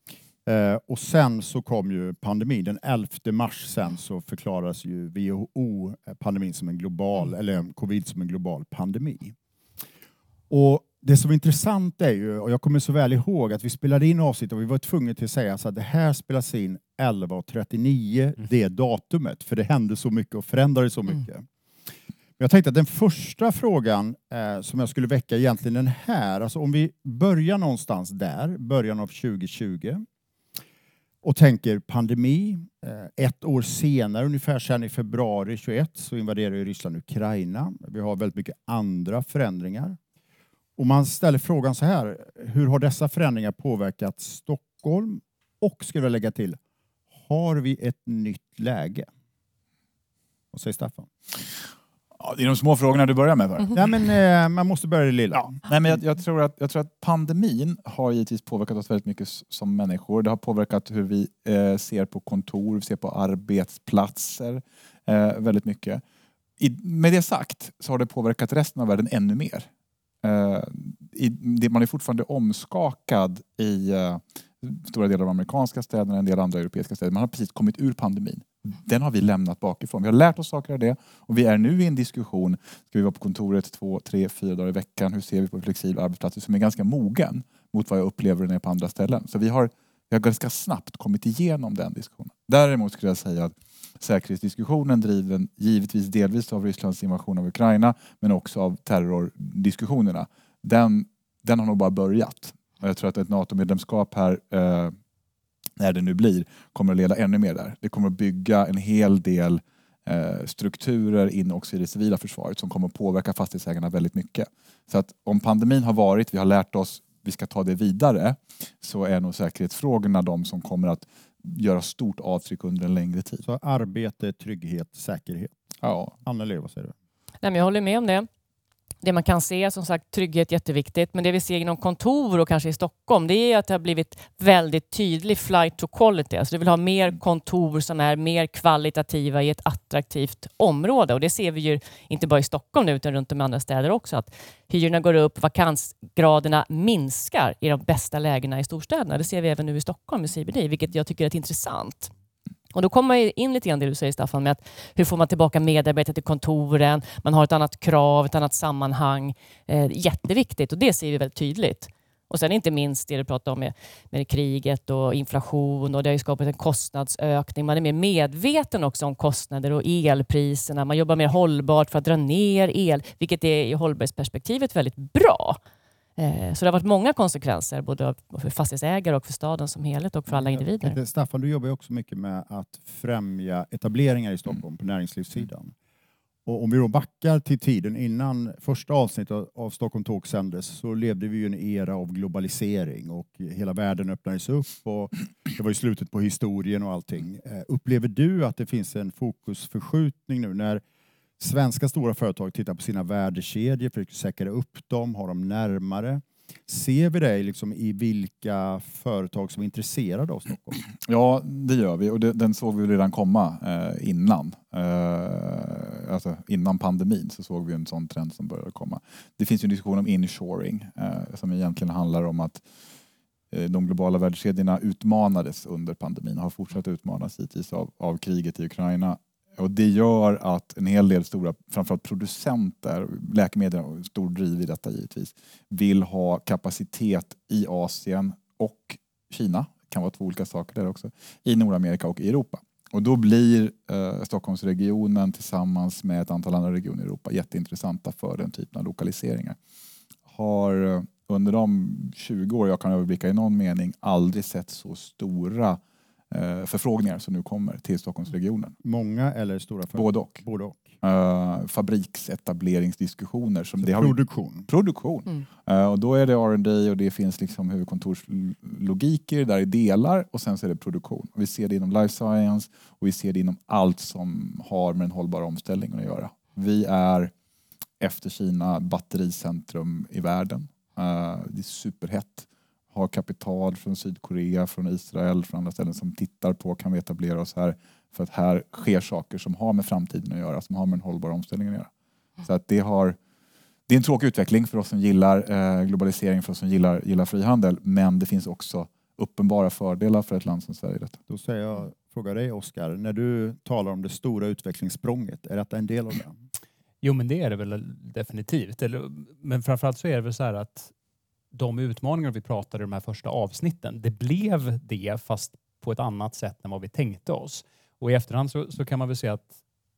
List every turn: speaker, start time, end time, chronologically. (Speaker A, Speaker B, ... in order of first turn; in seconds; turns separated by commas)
Speaker A: 0.5-9.3, Speaker A: 10.5-21.4, Speaker A: 22.4-30.0, Speaker A: 31.2-40.0, Speaker A: 40.8-46.6, Speaker A: 47.2-49.1, Speaker A: 50.5-51.1, Speaker B: 52.2-53.8, Speaker A: 53.7-55.6, Speaker B: 55.6-66.0, Speaker B: 66.6-69.7, Speaker B: 70.2-104.9, Speaker B: 105.8-123.4, Speaker A: 123.4-125.6, Speaker B: 125.8-126.1, Speaker A: 126.2-126.9, Speaker C: 127.4-128.3, Speaker C: 129.0-152.1, Speaker C: 152.7-175.6, Speaker C: 176.2-181.0, Speaker A: 180.3-185.7, Speaker A: 186.4-200.8, Speaker A: 201.4-210.8, Speaker B: 211.0-222.6, Speaker B: 223.5-249.6, Speaker B: 250.3-258.7, Speaker A: 258.8-261.0, Speaker B: 259.9-260.4, Speaker B: 261.0-264.2, Speaker A: 263.8-264.7, Speaker B: 264.7-277.3, Speaker B: 278.0-291.9, Speaker B: 292.4-293.2, Speaker B: 293.9-301.2, Speaker A: 301.3-306.3, Speaker D: 307.0-310.9, Speaker D: 311.5-319.5